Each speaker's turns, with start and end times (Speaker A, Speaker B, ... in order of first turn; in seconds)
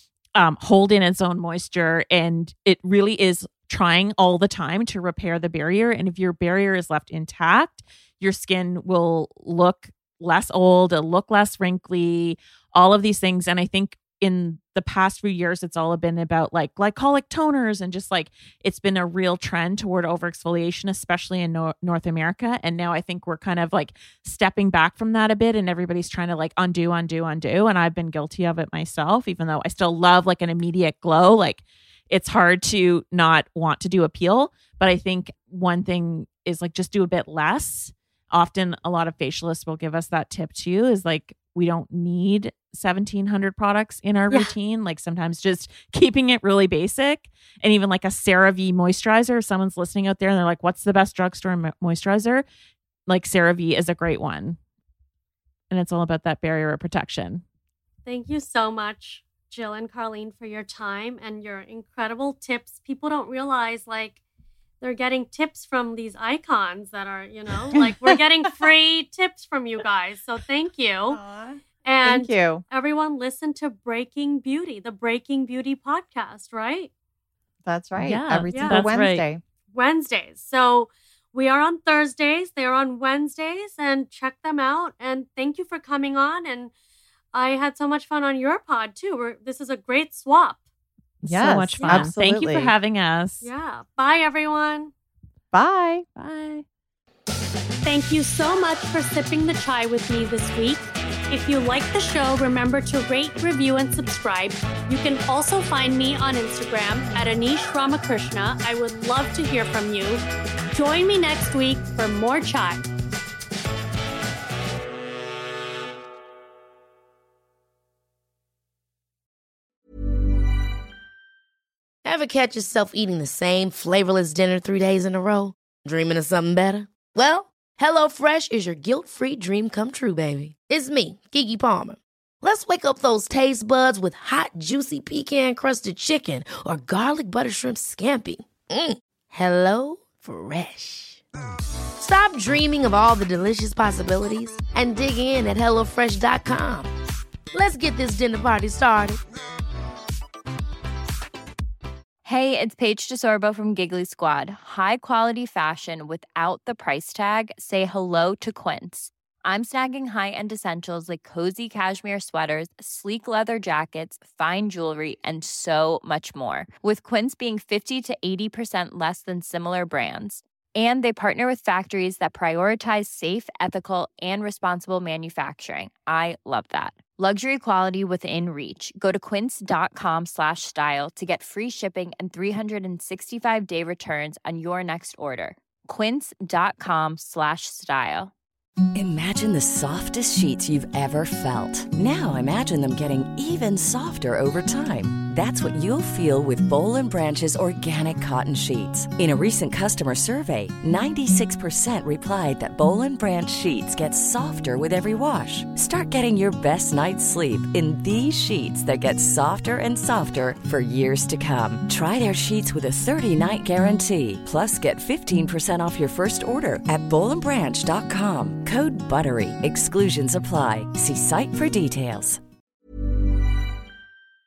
Speaker A: 0.3-52.4, 53.1-54.6, 55.7-57.4, 77.9-79.2, 91.2-93.5, 96.2-96.6
Speaker B: 58.0-64.2, 64.8-71.2, 71.8-76.9, 78.5-78.8, 79.7-86.7, 87.3-90.6, 91.8-92.1, 93.4-94.9, 97.8-112.8
Speaker C: 67.7-68.2, 71.1-72.6, 77.6-79.4, 91.2-92.7, 95.5-96.0
Speaker D: 122.0-141.2, 142.0-146.9, 147.5-149.2
Speaker E: 152.2-188.3
Speaker F: 188.9-222.4